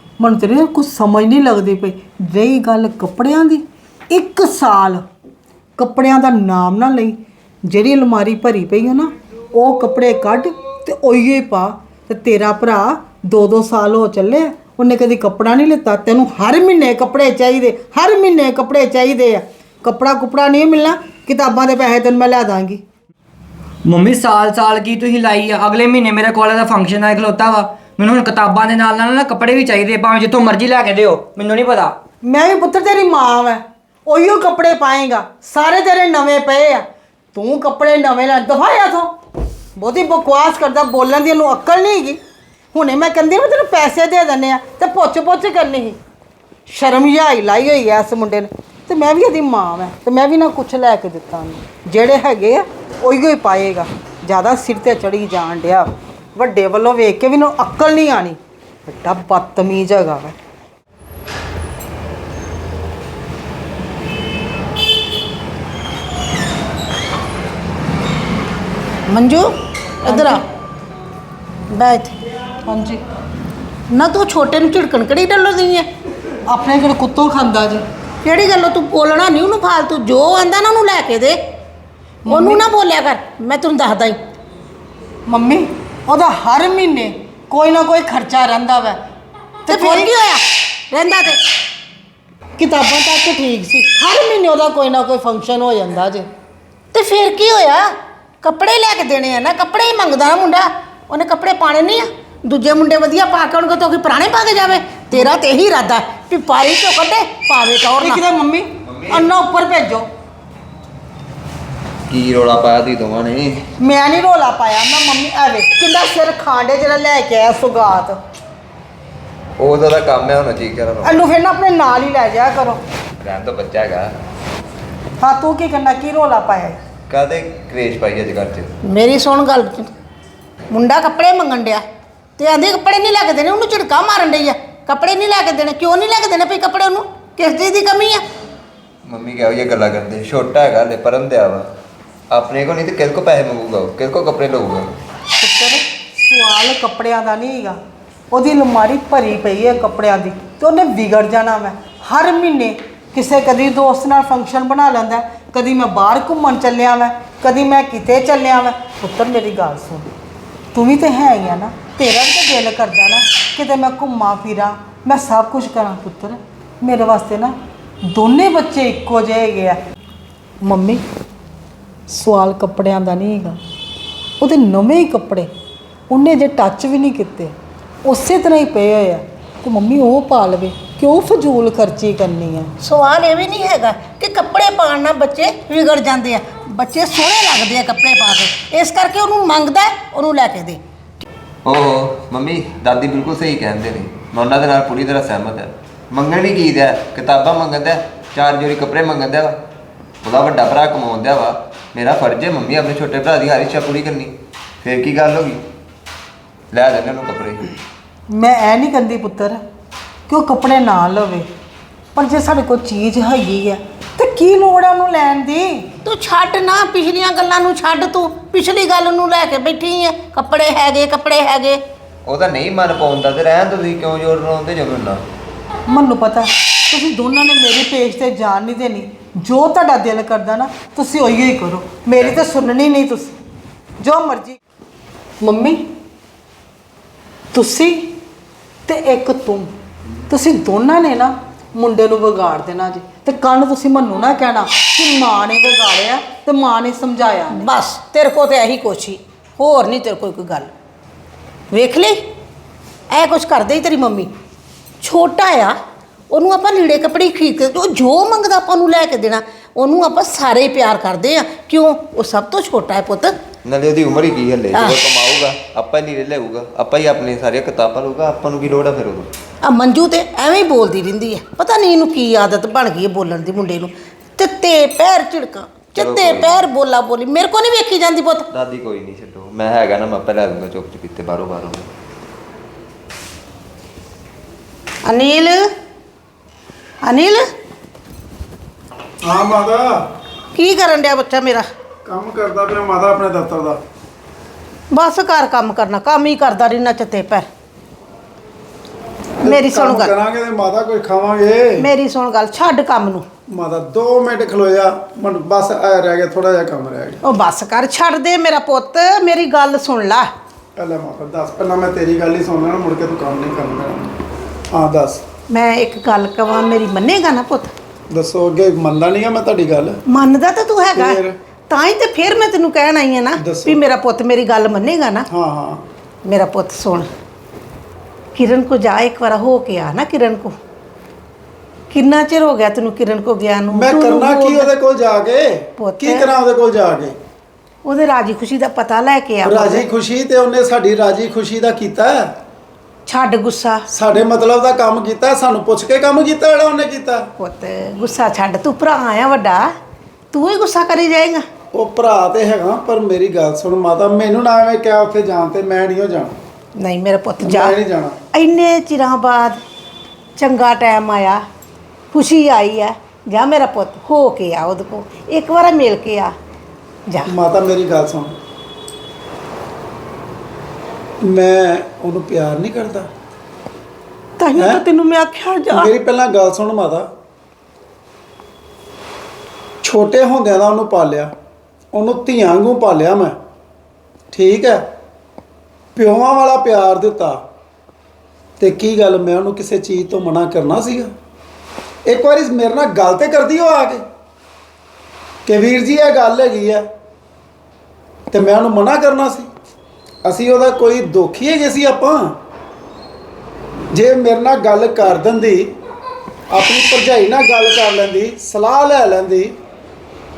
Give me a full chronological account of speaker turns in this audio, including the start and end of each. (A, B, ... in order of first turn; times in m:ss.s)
0:00.2-0:05.0 A
0:05.8-0:22.8 A
0:23.8-0:32.0 B
0:32.2-0:39.2 A
0:39.8-0:42.2 A
0:42.7-0:46.0 A
0:46.7-1:00.4 A
1:09.1-1:09.5 C
1:10.0-1:10.4 C
1:10.0-1:10.4 A
1:11.7-1:12.2 C
1:12.6-1:13.0 A
1:13.9-1:15.9 C
1:16.5-1:17.8 A
1:18.2-1:21.4 C
1:22.2-1:22.6 A
1:22.3-1:24.2 C
1:25.3-1:29.0 A
1:29.7-1:30.1 A
1:29.7-1:31.4 C
1:32.6-1:36.3 A
1:36.9-1:37.9 C
1:38.4-1:48.2 C
1:48.0-1:50.1 A
1:48.8-1:49.3 D
1:52.1-1:53.6 D
1:53.8-1:58.2 A
1:59.6-2:01.2 D
2:01.0-2:02.8 A
2:03.2-2:04.1 D
2:05.2-2:06.8 A
2:07.1-2:08.8 D
2:08.8-2:09.9 C
2:10.7-2:11.8 C
2:12.4-2:18.2 C
2:19.1-2:21.6 D
2:22.3-2:24.9 D
2:25.4-2:27.8 A
2:28.3-2:40.1 A
2:40.7-2:49.8 A
2:50.6-2:51.0 A
2:52.1-2:53.6 A
2:54.4-2:55.5 A
2:56.1-3:02.7 A
3:02.8-3:10.8 C
3:11.6-3:19.6 D
3:20.2-3:25.6 D
3:26.7-3:27.7 D
3:28.3-3:29.6 A
3:30.3-3:31.5 A
3:32.1-3:35.9 A
3:36.0-3:41.8 C
3:42.2-3:45.2 D
3:45.9-3:53.3 A
3:54.0-3:54.6 A
3:55.4-3:55.8 A
3:57.5-3:58.2 A
3:58.8-3:59.7 A
4:00.3-4:07.6 A
4:07.5-4:10.7 C
4:11.7-4:12.2 C
4:13.1-4:14.3 C
4:15.0-4:15.8 C
4:16.3-4:23.4 C
4:23.6-4:29.3 D
4:29.6-4:38.4 C
4:35.9-4:36.7 D
4:38.5-4:41.9 D
4:45.0-4:45.6 C
4:47.0-4:47.5 C
4:49.2-4:50.1 E
4:50.5-4:51.6 C
4:52.0-4:53.8 E
4:54.9-4:57.5 C
4:59.4-5:01.9 E
4:59.4-5:00.1 C
5:01.8-5:03.2 C
5:03.5-5:07.2 E
5:07.2-5:10.3 C
5:10.8-5:14.2 E
5:14.7-5:15.2 E
5:15.5-5:17.7 C
5:18.1-5:20.0 E
5:20.1-5:25.2 C
5:20.9-5:21.4 E
5:23.4-5:23.8 E
5:25.3-5:25.8 E
5:26.2-5:27.1 C
5:28.3-5:30.5 C
5:31.9-5:34.7 C
5:33.7-5:37.2 E
5:35.8-5:36.3 C
5:37.8-5:39.9 C
5:39.4-5:42.4 E
5:43.0-5:43.9 C
5:43.9-5:47.3 E
5:47.4-5:49.7 C
5:50.3-5:51.4 C
5:51.7-5:56.4 E
5:56.8-5:57.8 C
5:57.4-5:58.2 E
5:58.3-5:59.6 C
6:00.4-6:01.4 C
6:02.1-6:06.3 C
6:07.1-6:07.3 C
6:07.2-6:08.4 E
6:11.2-6:13.1 E
6:14.4-6:15.9 C
6:14.6-6:14.8 E
6:15.7-6:17.1 E
6:19.8-6:21.3 E
6:21.9-6:23.4 E
6:24.3-6:24.9 E
6:26.0-6:27.4 E
6:28.6-6:31.1 E
6:32.0-6:34.0 E
6:35.4-6:36.9 E
6:38.3-6:39.5 E
6:40.2-6:42.4 E
6:43.9-6:45.8 E
6:46.5-6:49.6 E